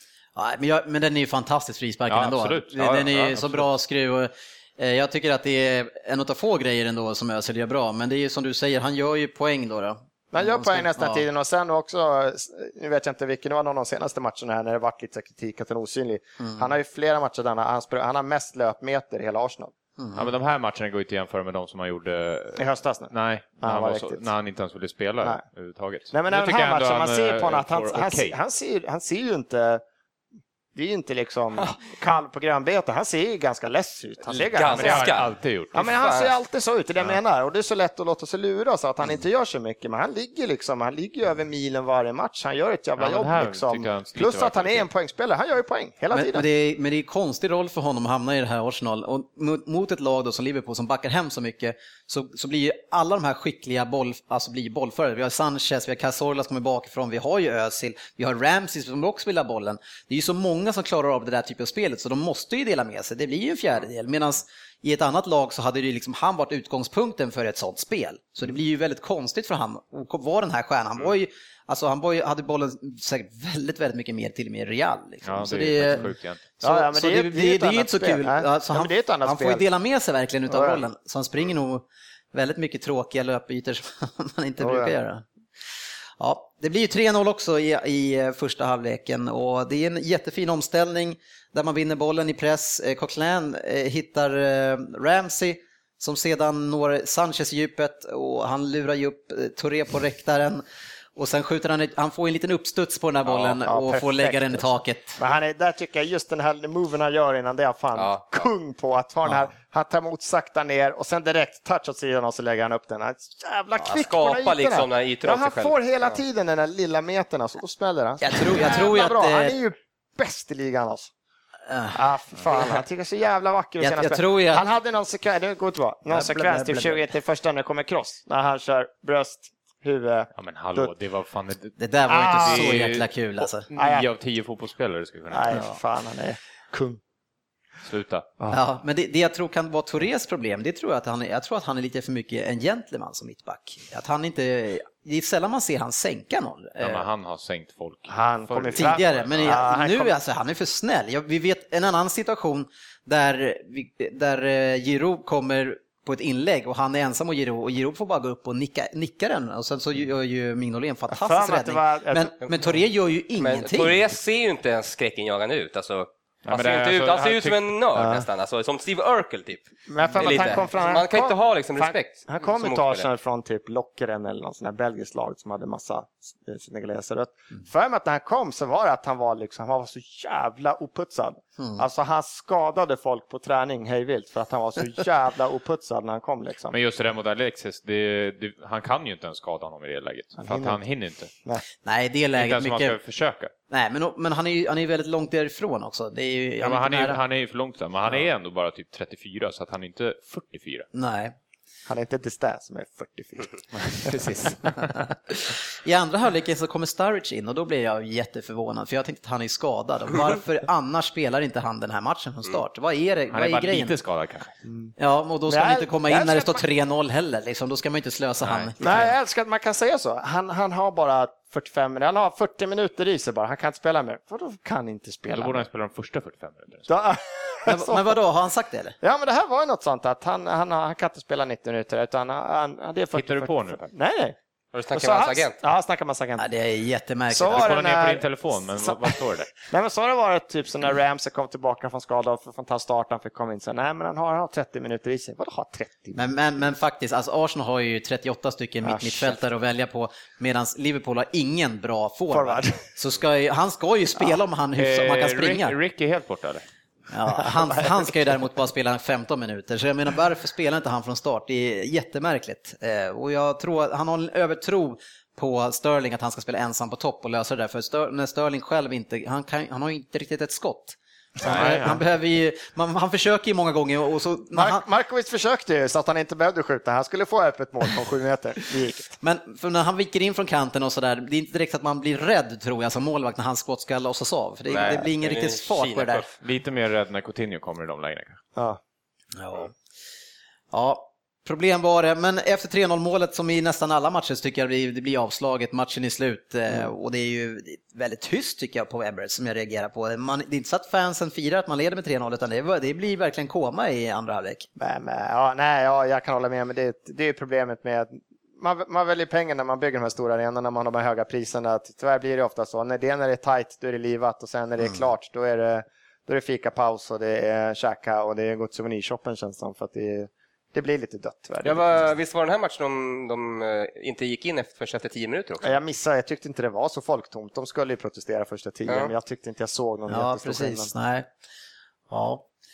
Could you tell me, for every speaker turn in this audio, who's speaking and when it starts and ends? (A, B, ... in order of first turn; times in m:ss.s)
0:00.4-0:11.2 A
0:02.1-0:03.7 B
0:10.3-0:19.7 C
0:16.4-0:16.7 A
0:20.0-0:20.3 A
0:20.2-0:28.4 B
0:22.6-0:24.2 C
0:26.1-0:29.8 C
0:30.8-0:35.2 C
0:34.5-0:36.3 D
0:34.7-0:35.9 B
0:35.7-0:46.4 C
0:43.0-0:44.9 B
0:46.1-1:25.3 A
1:15.2-1:16.4 B
1:16.6-1:19.6 C
1:20.5-1:20.8 C
1:24.6-1:24.9 C
1:26.2-1:40.6 A
1:41.2-1:45.2 A
1:43.3-2:01.1 C
1:48.0-1:48.3 D
1:53.8-1:55.8 D
1:58.2-1:59.6 A
2:01.7-2:02.0 A
2:01.9-2:10.9 C
2:03.8-2:04.6 A
2:06.1-2:07.0 A
2:10.4-2:11.8 B
2:11.8-2:13.7 A
2:12.1-2:13.0 C
2:12.4-2:13.1 B
2:13.7-2:15.6 B
2:13.7-2:14.1 C
2:15.3-2:17.0 C
2:15.5-2:15.8 A
2:17.8-2:18.3 B
2:18.5-2:27.1 A
2:26.8-2:29.6 B
2:28.1-2:30.2 C
2:28.7-2:44.0 A
2:41.1-2:42.4 C
2:43.4-2:53.0 D
2:46.5-2:47.7 B
2:48.0-2:48.3 C
2:49.9-3:06.8 C
2:50.2-2:50.7 A
3:01.6-3:01.8 A
3:06.7-3:11.3 B
3:10.4-3:10.8 C
3:11.8-3:13.0 A
3:12.4-3:13.5 B
3:13.7-3:17.2 A
3:16.6-3:20.9 B
3:20.9-3:21.4 A
3:21.9-3:24.2 C
3:23.8-3:25.0 B
3:24.9-3:34.0 A
3:33.3-3:34.5 B
3:34.7-3:34.9 C
3:35.0-3:39.1 A
3:35.5-3:36.6 C
3:38.4-3:38.9 B
3:38.8-3:45.7 C
3:45.3-3:46.9 B
3:46.9-3:48.2 C
3:47.7-3:49.0 A
3:49.0-3:54.4 C
3:53.1-3:53.9 B
3:54.7-3:55.6 D
3:54.9-3:56.5 C
3:56.4-3:57.7 A
3:57.3-4:06.3 C
3:57.5-3:59.5 B
4:06.2-4:15.8 A
4:08.8-4:09.4 C
4:12.3-4:12.8 C
4:14.8-4:16.6 B
4:17.1-4:34.8 A
4:17.4-4:18.1 C
4:31.4-4:32.0 C
4:31.5-4:32.0 B
4:34.5-4:39.2 C
4:39.2-4:46.3 A
4:44.7-4:46.3 D
4:46.4-4:48.4 B
4:49.4-4:49.7 A
4:50.7-5:04.7 A
5:04.8-5:22.0 C
5:21.6-5:25.7 D
5:25.6-5:30.9 C
5:28.9-5:29.1 D
5:30.1-5:31.3 A
5:32.1-5:32.4 A